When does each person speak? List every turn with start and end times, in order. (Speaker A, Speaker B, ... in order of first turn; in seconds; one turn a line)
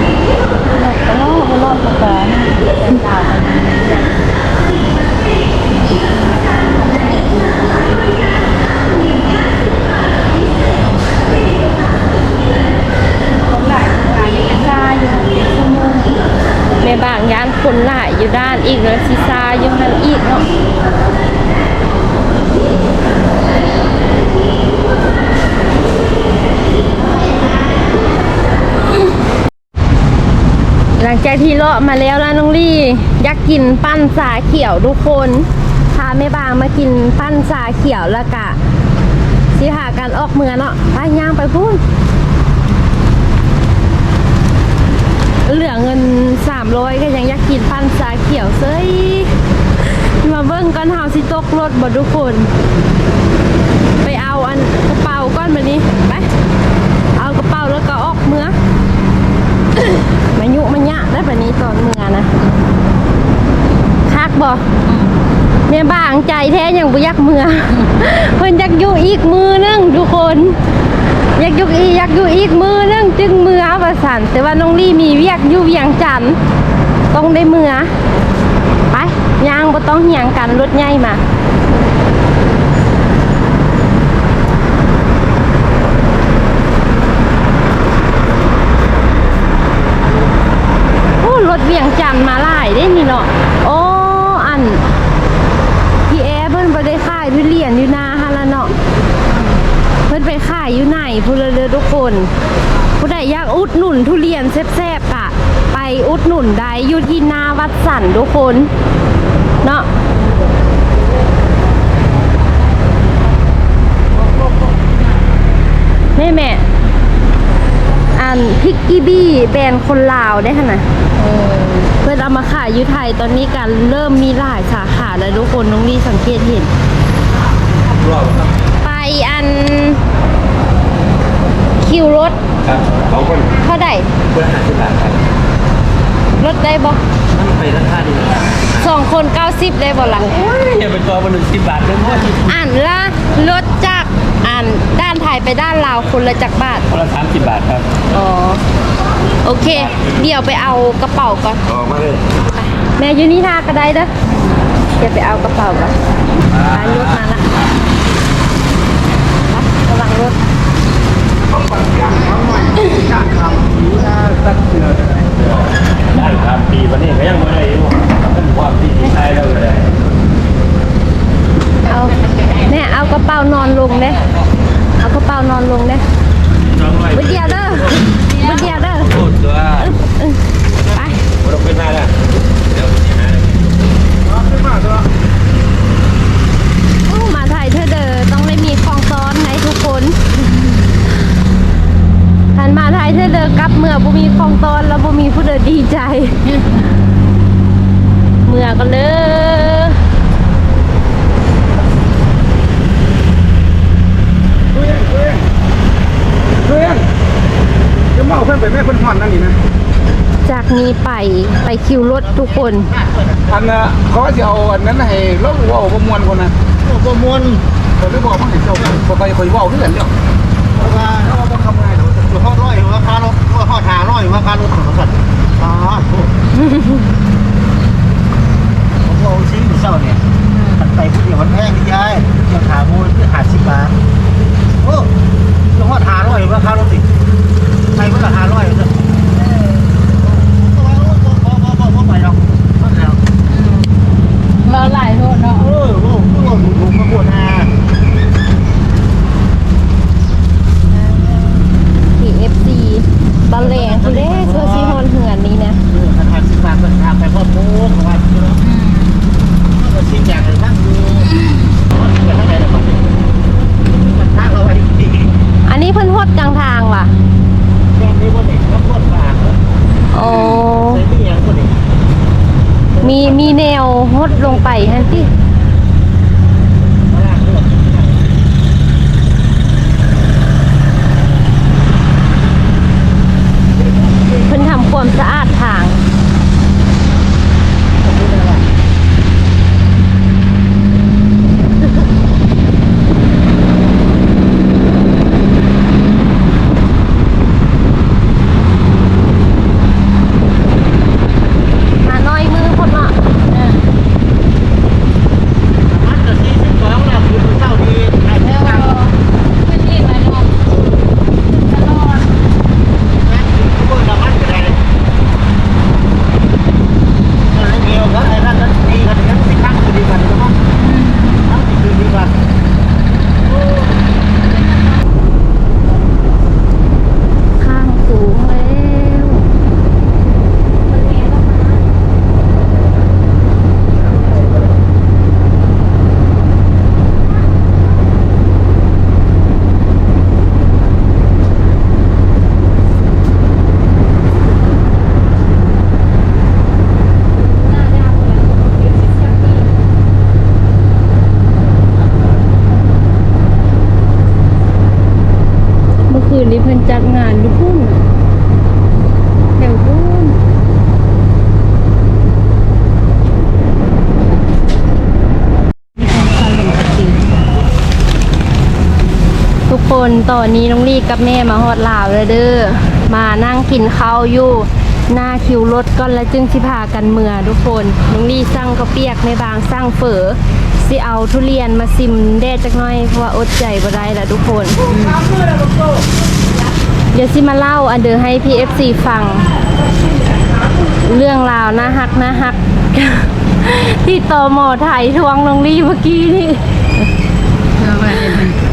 Speaker A: 0.7-4.1
Speaker A: 13.7-16.0
Speaker B: 16.8-20.5
Speaker B: 31.0-38.6
Speaker B: 39.5-41.8
Speaker B: 45.5-49.3
Speaker B: 50.2-52.5
Speaker B: 54.0-56.3
Speaker B: 57.2-58.5
Speaker B: 60.3-62.3
Speaker B: 64.1-64.7
Speaker A: 64.8-65.2
Speaker B: 65.7-70.6
Speaker B: 71.3-76.4
Speaker B: 77.1-77.9
Speaker B: 78.9-81.2
Speaker B: 91.2-94.8
Speaker B: 96.1-98.7
Speaker B: 100.1-102.3
Speaker B: 103.0-108.7
Speaker B: 116.2-116.6
Speaker B: 118.1-120.9
Speaker A: 121.2-121.9
Speaker B: 122.0-126.7
Speaker C: 128.0-128.5
Speaker B: 128.8-130.0
Speaker B: 131.8-132.4
Speaker C: 132.6-133.5
Speaker B: 133.6-134.1
Speaker C: 134.2-135.2
Speaker B: 136.4-137.0
Speaker C: 137.3-138.9
Speaker B: 138.8-140.3
Speaker C: 140.2-142.5
Speaker B: 142.4-146.9
Speaker C: 146.9-148.0
Speaker B: 148.1-148.6
Speaker B: 149.4-151.6
Speaker C: 149.7-150.2
Speaker C: 151.7-152.2
Speaker B: 152.6-154.1
Speaker A: 154.2-154.6
Speaker B: 155.0-156.0
Speaker C: 156.4-157.8
Speaker B: 156.6-157.5
Speaker B: 159.5-160.4
Speaker D: 161.5-165.3
Speaker C: 165.3-170.0
Speaker B: 171.9-174.2
Speaker B: 175.0-176.0
Speaker C: 176.7-179.9
Speaker B: 177.1-179.2
Speaker B: 179.8-180.4
Speaker B: 180.9-181.2
Speaker C: 181.4-182.1
Speaker C: 182.7-184.0
Speaker D: 184.2-185.0
Speaker B: 187.1-190.2
Speaker B: 192.5-196.5
Speaker B: 198.4-200.0
Speaker D: 204.7-205.4
Speaker D: 206.6-207.1
Speaker D: 208.1-209.6
Speaker B: 210.4-212.9
Speaker E: 212.1-213.8
Speaker D: 213.5-216.5
Speaker E: 216.8-217.6
Speaker D: 218.0-220.1
Speaker E: 220.8-226.3
Speaker D: 221.2-221.7
Speaker B: 226.6-227.0
Speaker E: 229.0-230.2
Speaker E: 230.7-233.9
Speaker E: 234.8-235.1
Speaker E: 235.7-237.1
Speaker E: 237.9-239.1
Speaker E: 239.8-243.2
Speaker A: 243.5-243.9
Speaker A: 244.6-245.7
Speaker E: 245.6-247.7
Speaker B: 252.1-255.8
Speaker E: 253.5-255.0
Speaker E: 255.9-258.6
Speaker A: 258.6-259.2
Speaker E: 259.7-261.3
Speaker E: 261.9-263.1
Speaker E: 263.9-265.3
Speaker B: 265.7-267.1
Speaker E: 267.9-269.6
Speaker B: 270.1-271.0
Speaker A: 270.2-270.5
Speaker E: 270.7-271.8
Speaker E: 272.9-273.6
Speaker B: 273.0-275.3
Speaker E: 274.3-275.3
Speaker E: 276.9-278.3
Speaker B: 284.4-286.0
Speaker E: 288.0-288.6
Speaker B: 302.0-303.2
Speaker A: 303.5-303.8
Speaker E: 305.8-308.9
Speaker A: 308.4-310.5
Speaker A: 311.7-312.2
Speaker E: 313.2-314.8
Speaker E: 317.4-320.6
Speaker A: 320.8-321.2
Speaker E: 321.4-322.3
Speaker B: 327.6-329.5
Speaker B: 356.1-358.0
Speaker B: 359.6-360.4
Speaker A: 365.9-367.3
Speaker B: 369.7-384.8
Speaker A: 384.9-385.2
Speaker B: 387.1-389.5
Speaker B: 391.0-396.6
Speaker A: 397.8-398.6